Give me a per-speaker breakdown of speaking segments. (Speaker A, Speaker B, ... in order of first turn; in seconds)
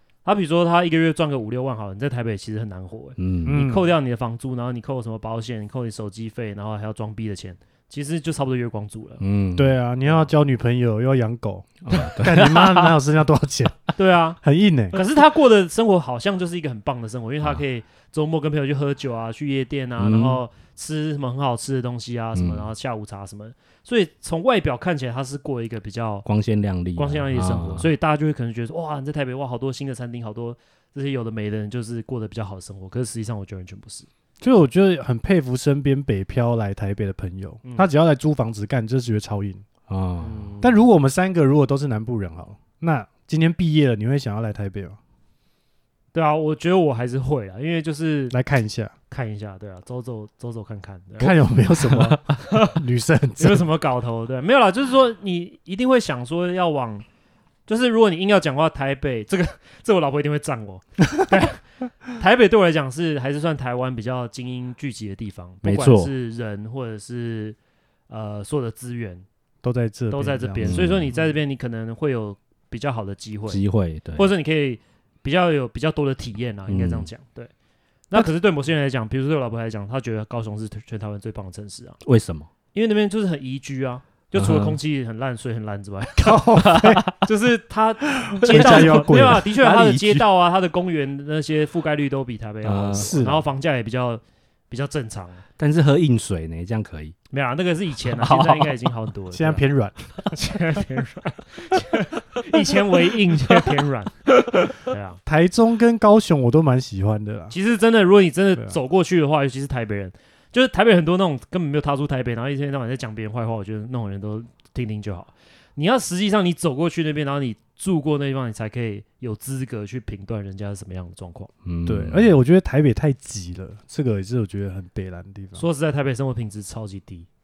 Speaker A: 0.2-9.2, 13.9-14.4, 14.9-26.2, 26.9-34.1, 37.6-37.9, 40.2-40.8, 46.1-48.3, 49.1-51.4, 52.4-52.8, 53.4-57.0, 57.7-67.6, 68.1-69.2, 70.1-73.6, 74.2-77.5, 78.1-82.0, 82.7-86.5, 87.2-95.4, 97.3-99.6, 100.3-104.2, 104.8-105.2, 107.5-121.5, 125.5-127.3
Speaker B: 3.2-3.6, 9.2-9.7, 11.9-13.0, 20.0-20.4, 22.3-22.7, 26.2-27.9, 39.9-40.4, 65.6-66.1, 70.6-71.2, 73.5-74.3, 76.7-77.1, 82.0-82.5, 84.3-84.8, 86.6-87.1, 88.5-89.2, 92.6-93.2, 95.6-97.1, 98.1-98.8, 121.6-122.3
Speaker C: 3.5-3.9, 9.6-13.8, 14.4-15.0, 34.4-39.6, 40.6-45.0, 48.3-48.9, 51.2-53.6, 69.6-70.8, 86.2-87.0, 88.1-90.2, 92.9-93.4, 99.3-100.0, 105.2-107.5, 121.8-125.6